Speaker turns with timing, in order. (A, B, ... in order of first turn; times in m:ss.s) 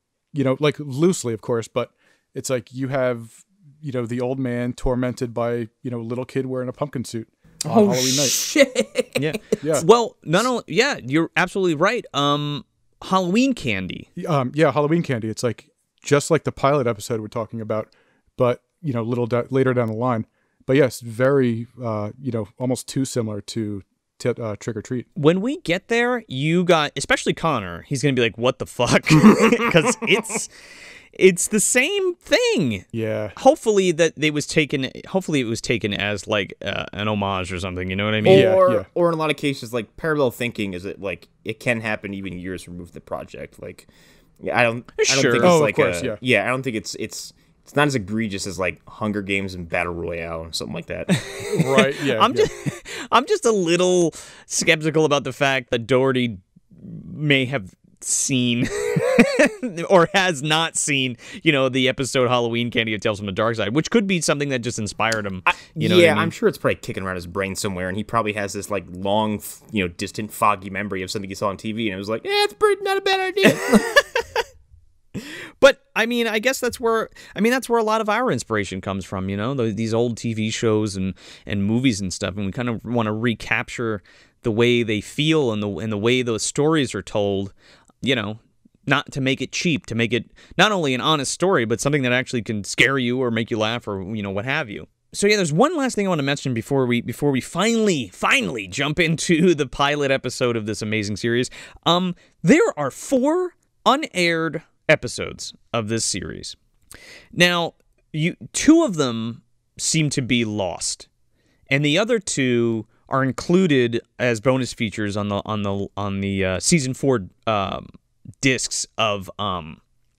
0:00.3-0:08.4 A
0:07.7-0:09.4 B
0:09.2-0:14.1 C
0:14.2-0:25.1 A
0:25.2-0:30.5 C
0:31.2-0:38.5 C
0:32.9-0:33.4 A
0:38.2-0:43.9 B
0:38.3-0:38.9 A
0:44.4-0:51.3 B
0:45.0-0:45.5 C
0:45.4-0:46.2 A
0:51.3-1:06.3 C
0:51.5-0:52.5 A
1:05.5-1:14.0 B
1:13.5-1:14.3 C
1:15.2-1:46.6 C
1:47.3-1:51.1 C
1:51.7-1:57.9 C
1:58.4-1:59.8 C